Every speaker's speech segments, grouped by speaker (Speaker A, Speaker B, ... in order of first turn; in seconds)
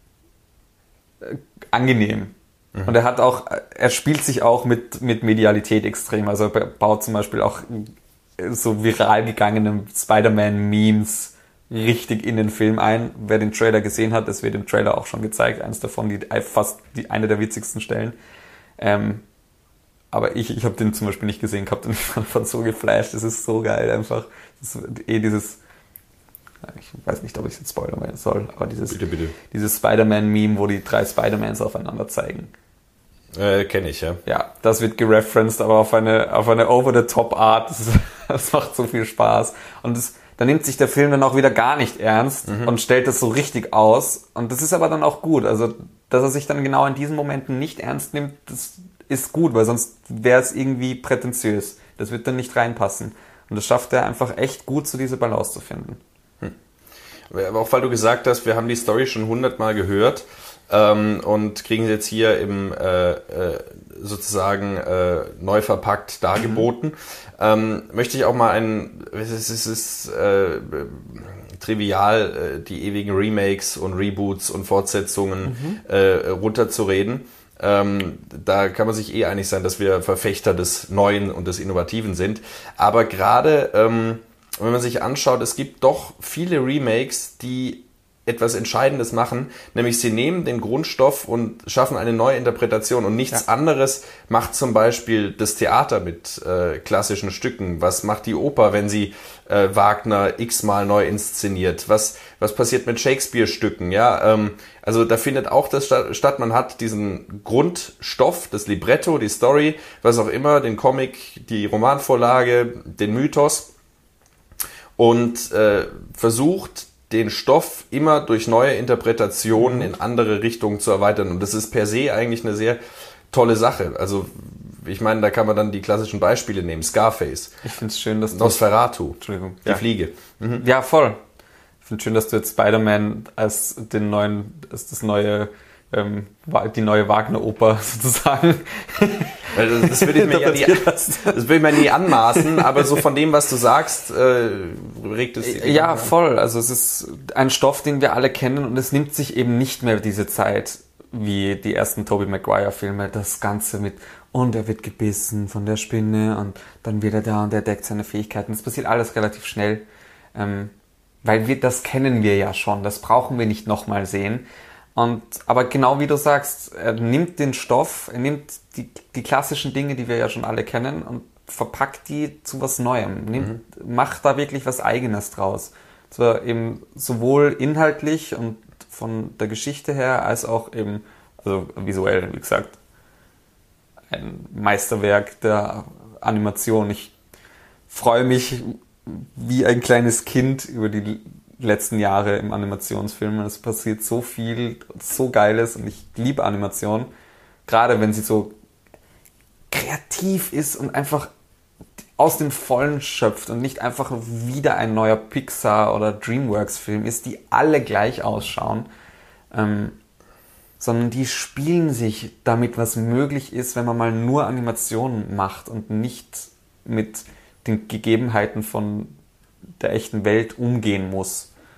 Speaker A: 1.2-18.1, 18.8-19.2, 20.1-25.6, 26.7-32.5, 34.3-56.0, 75.5-75.8, 119.6-119.9, 127.6-128.6, 129.2-129.8, 130.6-131.2, 131.8-143.0, 145.4-160.7, 161.2-182.7, 184.1-187.1, 187.9-197.1, 197.7-198.5, 199.7-201.3, 202.2-208.9, 209.5-210.0, 210.8-219.2, 219.8-221.5
Speaker B: 28.9-29.3, 33.3-34.2, 42.5-42.7, 57.3-113.7, 115.0-122.8, 123.3-127.6, 128.3-130.7, 139.5-146.1